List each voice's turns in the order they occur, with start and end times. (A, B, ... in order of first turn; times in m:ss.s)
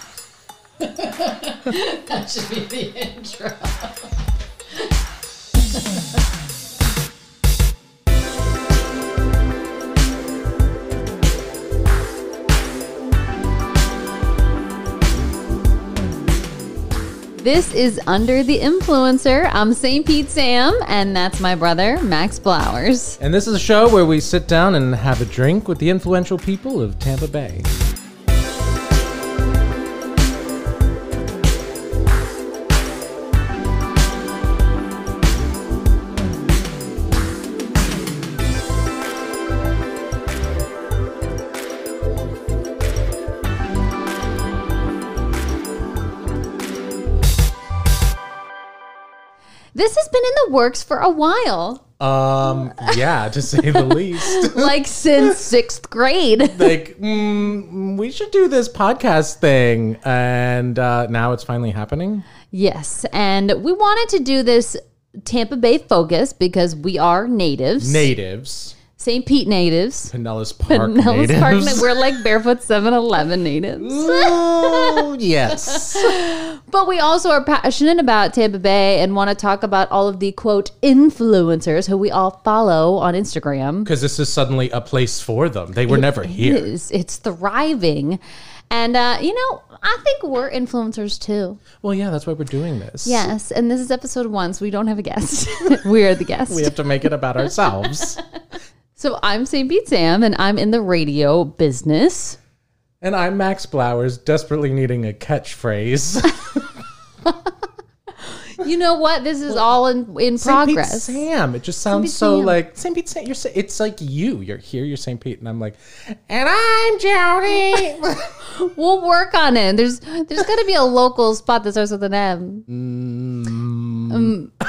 0:00.9-0:04.0 A
0:17.4-0:23.2 A
0:23.2-0:27.7 B
0:49.8-0:51.8 A
0:52.0-0:55.4 B
0:52.6-0:53.0 A
0:53.5-0:56.8 A
0:56.5-1:02.3 B
1:02.5-1:08.1 A
1:07.8-1:08.8 B
1:09.0-1:10.1 A
1:10.1-1:12.2 B
1:10.7-1:15.1 A
1:13.8-1:16.2 B
1:15.6-1:23.9 A
1:23.8-1:26.7 B
1:25.9-1:31.6 A
1:31.8-1:33.3 B
1:33.0-1:36.8 A
1:36.5-1:38.2 B
1:37.5-1:38.0 A
1:39.0-1:42.4 A
1:43.0-1:46.7 B
1:48.4-1:51.2 A
1:50.4-1:58.4 B
1:51.9-1:52.6 A
1:58.4-2:02.7 A
2:02.7-2:04.4 B
2:04.1-2:04.5 A